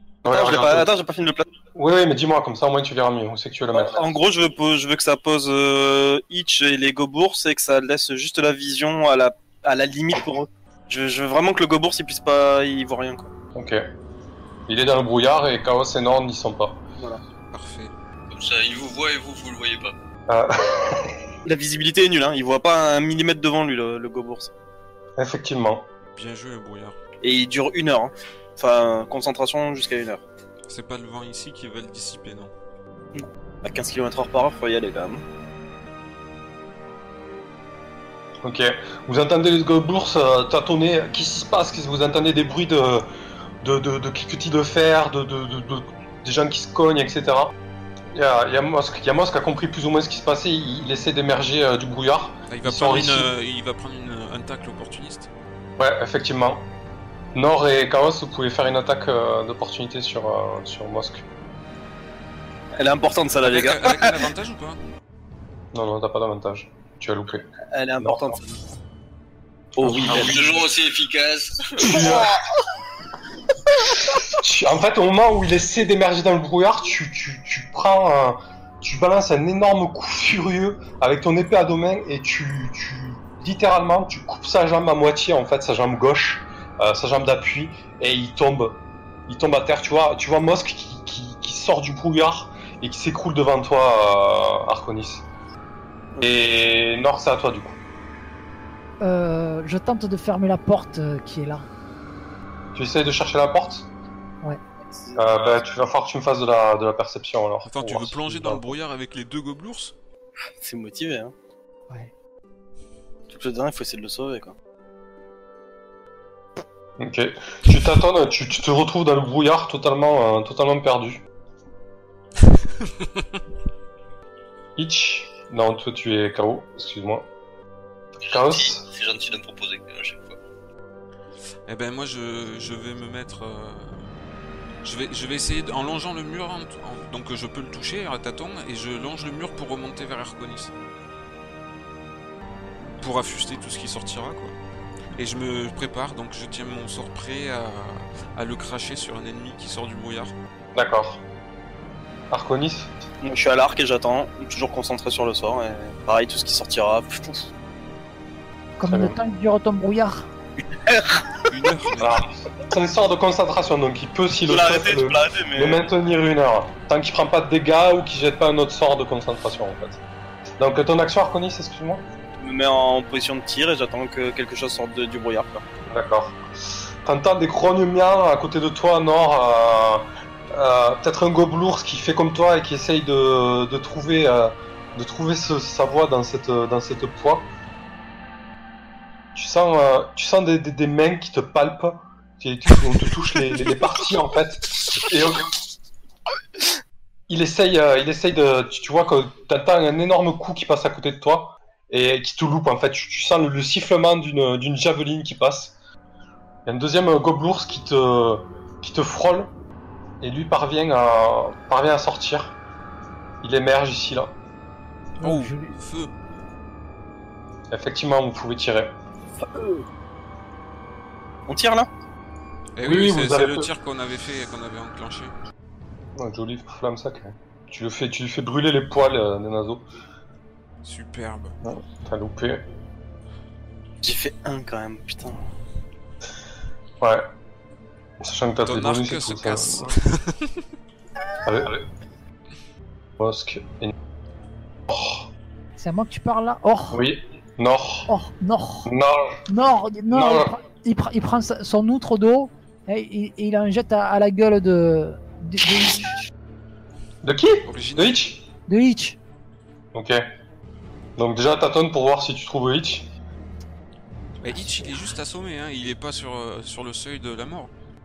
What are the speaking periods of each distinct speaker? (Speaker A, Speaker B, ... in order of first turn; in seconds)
Speaker A: 0.2-0.9, 1.7-4.0, 13.5-13.8, 14.7-16.8, 20.3-21.2, 25.2-25.9, 38.4-43.1, 43.6-47.5, 48.1-53.3, 55.8-56.7, 57.3-61.2, 65.7-67.5, 68.0-68.4, 69.8-70.4, 71.8-72.3, 74.2-95.2, 96.2-97.8, 102.7-103.9, 105.1-108.8, 117.0-121.2, 124.8-127.2, 128.3-128.8, 150.7-151.2, 152.3-152.9, 158.8-159.2, 162.0-170.0, 170.6-172.0, 175.9-176.4, 177.0-187.5, 189.3-195.5, 197.3-205.7, 206.7-209.5, 210.2-212.6, 213.4-214.3, 217.7-218.9, 222.8-223.7, 226.2-229.8, 231.6-232.6, 237.0-237.3, 238.2-239.9, 241.4-241.8, 243.2-243.9, 244.9-245.3, 246.9-248.1, 248.8-249.4, 250.1-250.5, 257.2-258.4, 259.9-260.2, 261.2-263.1
Speaker B: 0.3-1.4, 3.7-13.3, 21.4-24.5, 27.2-30.2, 33.1-35.2, 62.8-64.2, 67.7-68.6, 69.8-70.5, 104.8-105.3, 110.6-111.3, 113.3-114.5, 153.2-157.5, 160.7-161.4, 164.5-165.8, 172.4-175.6, 219.4-219.8, 221.5-221.9, 234.0-235.4
Speaker C: 17.5-17.9, 26.1-26.9, 30.7-32.5, 52.5-55.3, 63.4-64.8, 107.6-109.9, 131.7-134.0, 134.8-140.7, 143.0-144.5, 145.2-150.3, 161.5-162.2, 215.2-216.1, 222.8-225.3, 230.8-231.6, 238.6-240.6, 257.6-258.2, 264.4-267.7
Speaker D: 18.3-19.9, 70.0-72.2, 128.3-130.4
Speaker E: 99.0-101.7, 158.8-160.3, 215.2-215.8, 245.8-247.0, 248.1-248.9, 249.5-256.2, 258.7-259.2, 264.5-265.1